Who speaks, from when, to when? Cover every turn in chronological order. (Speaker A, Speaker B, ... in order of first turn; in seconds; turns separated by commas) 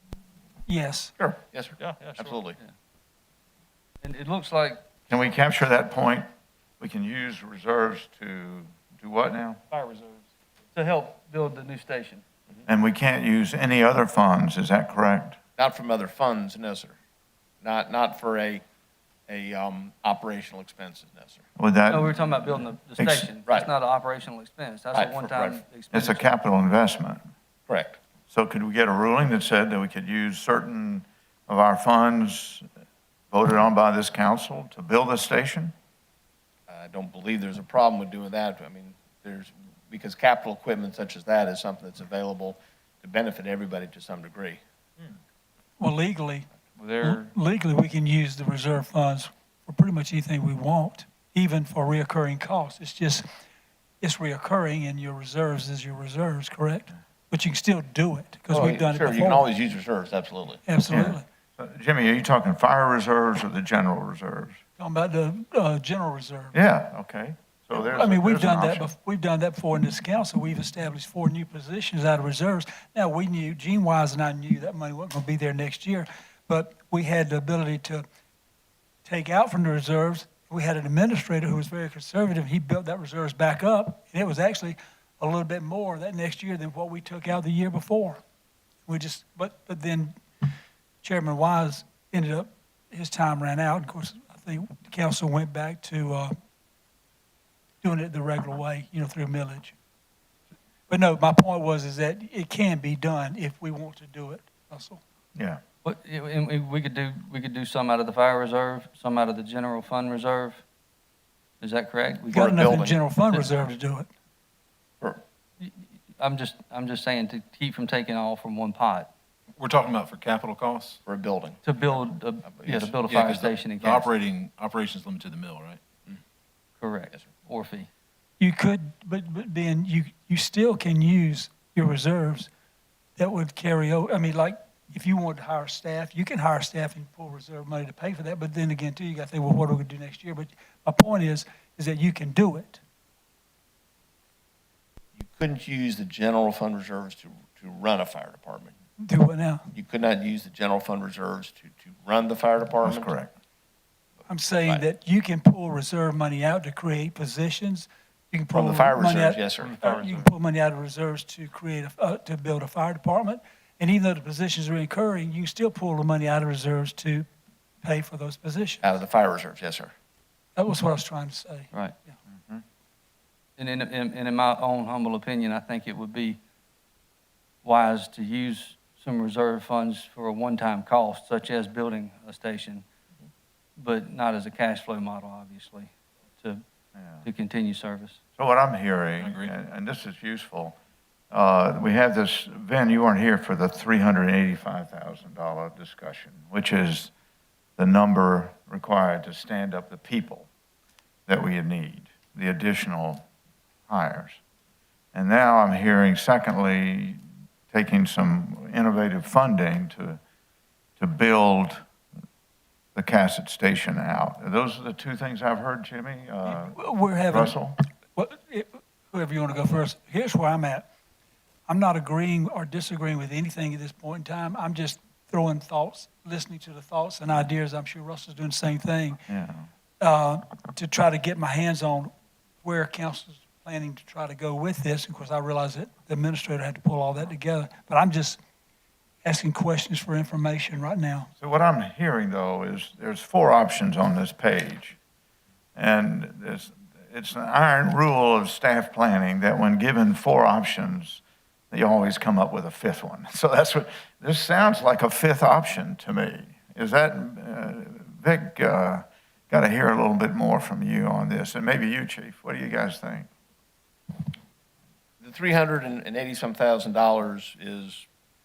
Speaker A: 0.7-1.1, Speaker B: 1.2-2.6, Speaker C: 1.8-2.4, Speaker D: 4.0-4.8, Speaker E: 5.1-6.3, Speaker E: 6.8-9.6, Speaker C: 9.7-10.2, Speaker D: 10.7-12.2, Speaker E: 12.7-15.4, Speaker B: 15.6-16.9, Speaker B: 17.6-18.6, Speaker B: 19.3-21.4, Speaker E: 21.6-23.3, Speaker D: 21.9-26.3, Speaker B: 24.9-25.6, Speaker E: 25.9-27.2, Speaker B: 27.7-28.0, Speaker E: 28.3-32.6, Speaker E: 33.3-35.7, Speaker B: 36.7-44.6, Speaker A: 45.8-46.5, Speaker C: 46.8-47.3, Speaker A: 47.0-53.2, Speaker A: 54.0-59.5, Speaker B: 58.5-60.6, Speaker A: 60.6-61.2, Speaker E: 60.9-64.6, Speaker A: 64.8-66.5, Speaker E: 66.5-68.9, Speaker A: 67.7-78.0, Speaker A: 79.0-88.2, Speaker A: 88.8-90.1, Speaker A: 91.0-96.3, Speaker A: 97.8-99.7, Speaker A: 100.9-105.0, Speaker E: 105.3-105.6, Speaker D: 105.8-110.6, Speaker D: 111.6-112.8, Speaker B: 112.3-113.0, Speaker A: 112.3-114.1, Speaker D: 115.6-119.1, Speaker F: 119.6-121.0, Speaker B: 121.0-121.6, Speaker D: 121.6-124.1, Speaker B: 122.4-123.0, Speaker F: 123.0-125.8, Speaker D: 126.8-127.9, Speaker A: 128.4-132.5, Speaker A: 133.2-142.8, Speaker B: 145.1-148.7, Speaker A: 149.0-149.7, Speaker B: 149.7-153.1, Speaker E: 152.8-153.3, Speaker A: 154.2-167.3, Speaker B: 158.5-160.0, Speaker C: 159.6-160.2, Speaker A: 167.8-168.8, Speaker B: 168.8-169.9, Speaker A: 170.6-172.1, Speaker E: 172.3-172.6, Speaker D: 173.6-176.4, Speaker D: 177.6-182.8, Speaker D: 183.8-186.6, Speaker E: 186.9-187.2, Speaker D: 187.2-188.2, Speaker E: 188.4-190.8, Speaker F: 189.2-189.5, Speaker E: 191.3-197.1, Speaker E: 197.8-200.5, Speaker E: 201.3-203.2, Speaker E: 203.9-204.4, Speaker E: 205.1-210.2, Speaker E: 211.0-211.8, Speaker E: 212.9-217.8, Speaker A: 216.4-220.9, Speaker A: 221.7-229.2, Speaker E: 229.3-229.7, Speaker A: 230.0-238.4, Speaker A: 239.2-241.3, Speaker E: 241.4-245.0, Speaker E: 245.7-263.3, Speaker B: 265.2-268.1